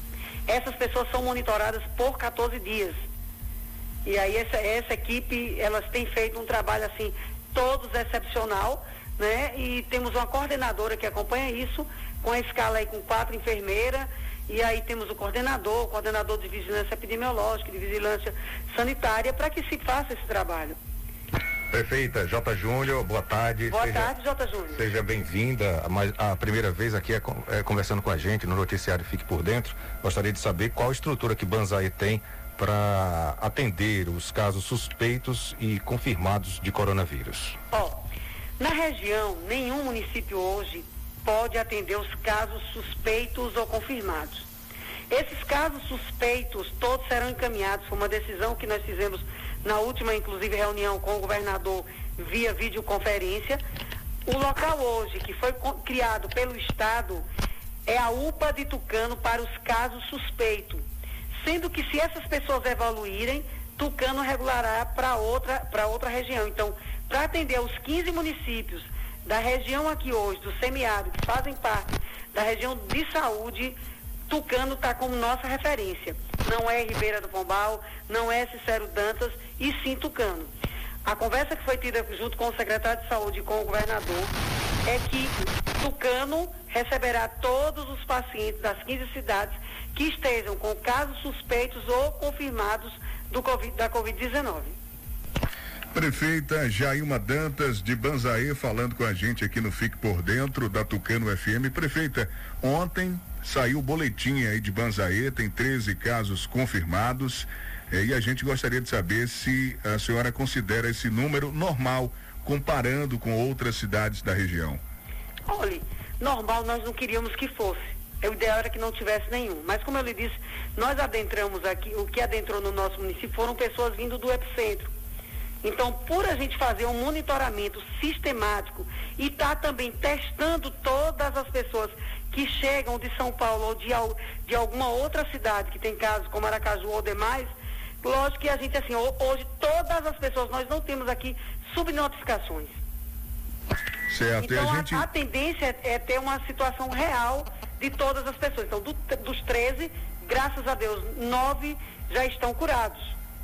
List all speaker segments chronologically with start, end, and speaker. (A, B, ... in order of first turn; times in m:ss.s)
0:00.5-0:03.0 A
0:04.0-0:20.8 A
0:21.7-0:24.1 B
0:23.7-0:24.8 A
0:24.7-0:37.6 B
0:37.7-0:38.0 A
0:38.6-0:44.4 A
0:45.1-0:53.6 A
0:54.2-0:57.2 A
0:57.8-1:00.8 A
1:01.4-1:13.8 A
1:14.3-1:20.5 A
1:21.0-1:24.3 A
1:24.8-1:34.8 A
1:35.9-1:54.8 C
1:55.5-2:04.9 A
2:05.6-2:17.5 A
2:18.0-2:22.8 A
2:24.1-2:25.0 C
2:24.4-2:33.2 A